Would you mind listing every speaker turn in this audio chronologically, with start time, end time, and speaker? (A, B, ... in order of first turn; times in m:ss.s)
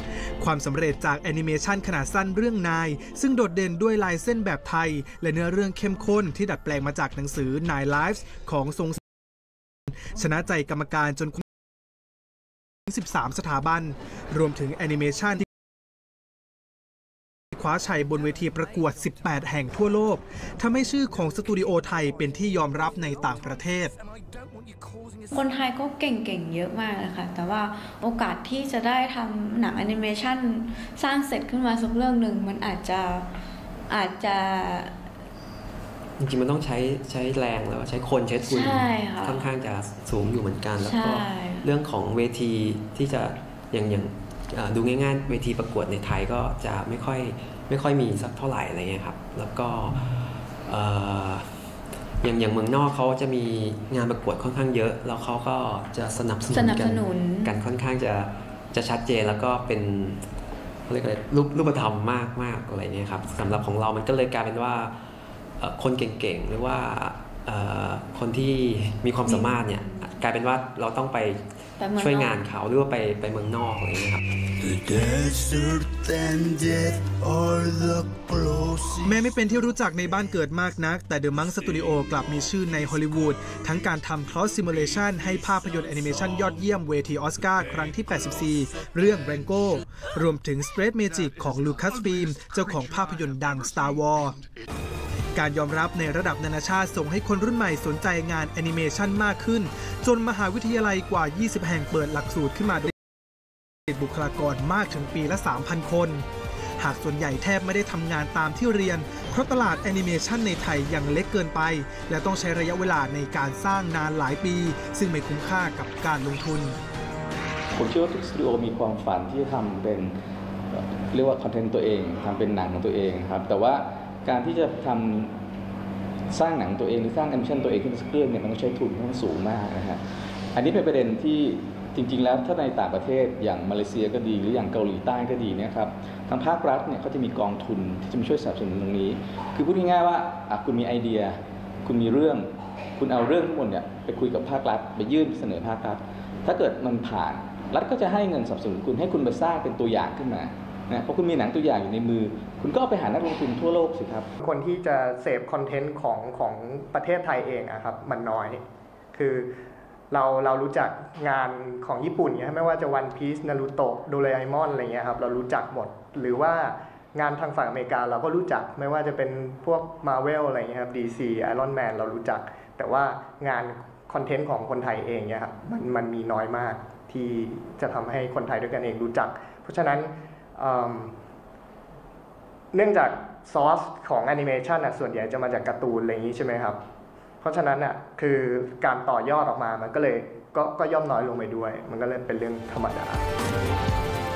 0:00.4-0:09.0 A
0:10.1-0:11.4 A
0:12.9-0:15.5 A
0:17.5-0:23.9 A
0:25.3-0:33.3 B
0:33.9-0:34.9 B
0:36.2-0:51.5 C
0:38.4-0:39.5 B
0:40.8-0:41.7 B
0:52.2-1:00.2 C
0:56.5-0:57.5 B
1:00.9-1:05.0 C
1:05.6-1:14.2 C
1:09.2-1:10.1 B
1:11.8-1:12.4 B
1:14.6-1:18.9 D
1:19.0-1:34.4 A
1:35.3-1:42.9 A
1:43.9-1:46.2 A
1:46.8-1:56.8 A
1:57.7-2:00.1 E
2:00.7-2:05.3 E
2:06.3-2:10.0 E
2:10.5-2:34.3 E
2:34.4-2:38.6 F
2:39.1-2:39.5 F
2:40.1-3:01.1 F
3:02.7-3:06.8 F
3:07.4-3:13.2 F